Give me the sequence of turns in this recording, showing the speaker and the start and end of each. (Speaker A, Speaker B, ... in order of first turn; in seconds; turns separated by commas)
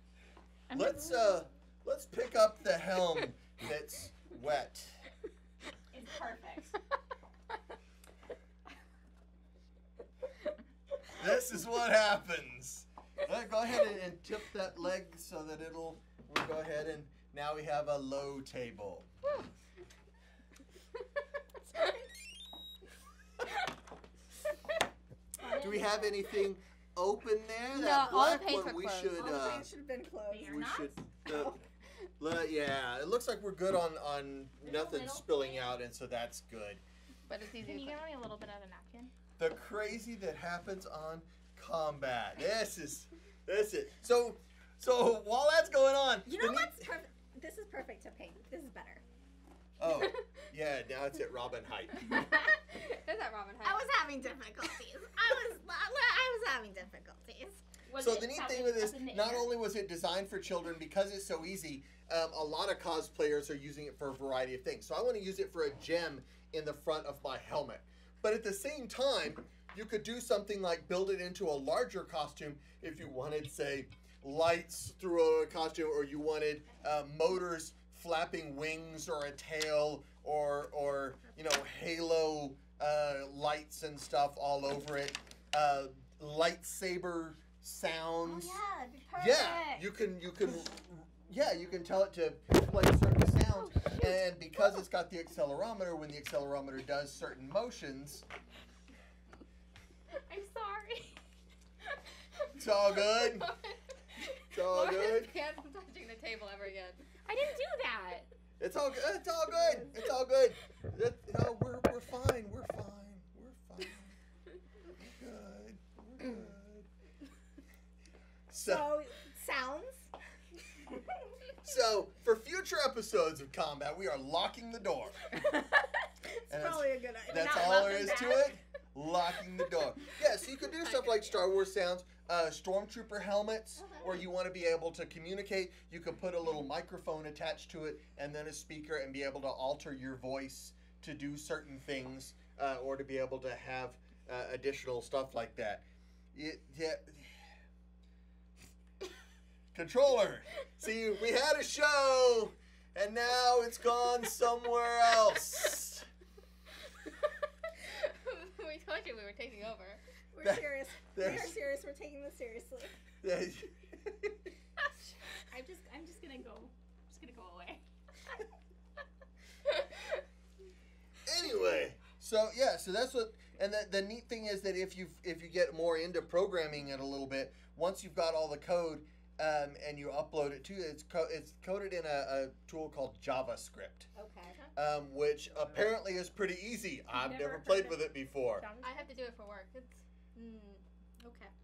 Speaker A: 0.7-1.4, Speaker B: 0.7-5.0, Speaker A: 5.9-6.7, Speaker B: 11.2-19.1, Speaker C: 25.4-26.2, Speaker A: 25.5-25.9, Speaker B: 25.6-29.7, Speaker D: 27.7-29.1, Speaker C: 29.1-31.6, Speaker A: 30.3-31.0, Speaker B: 30.5-31.6, Speaker B: 32.2-36.8, Speaker A: 34.6-35.7, Speaker D: 37.3-38.0, Speaker A: 37.5-39.1, Speaker B: 39.4-46.9, Speaker C: 46.2-49.0, Speaker B: 49.8-52.1, Speaker D: 52.1-53.9, Speaker C: 53.6-57.6, Speaker A: 57.9-59.5, Speaker B: 58.0-88.6, Speaker C: 88.2-89.9, Speaker B: 89.2-98.2, Speaker A: 100.3-101.2, Speaker B: 102.6-103.5, Speaker B: 104.5-105.3, Speaker D: 104.6-107.0, Speaker A: 107.2-108.3, Speaker B: 108.6-114.1, Speaker B: 115.0-116.9, Speaker B: 118.5-118.9, Speaker C: 118.6-120.1, Speaker B: 121.6-125.3, Speaker C: 126.3-127.7, Speaker B: 126.5-147.5, Speaker A: 127.3-128.6, Speaker A: 130.7-131.4, Speaker C: 133.8-134.2, Speaker B: 149.7-156.1, Speaker D: 157.8-160.0, Speaker C: 160.3-162.9, Speaker B: 160.4-161.6, Speaker B: 163.2-164.4, Speaker A: 165.5-167.8, Speaker B: 171.2-184.1, Speaker C: 184.1-184.7, Speaker B: 184.8-188.7, Speaker A: 187.1-189.1, Speaker D: 188.8-190.8, Speaker C: 191.2-191.5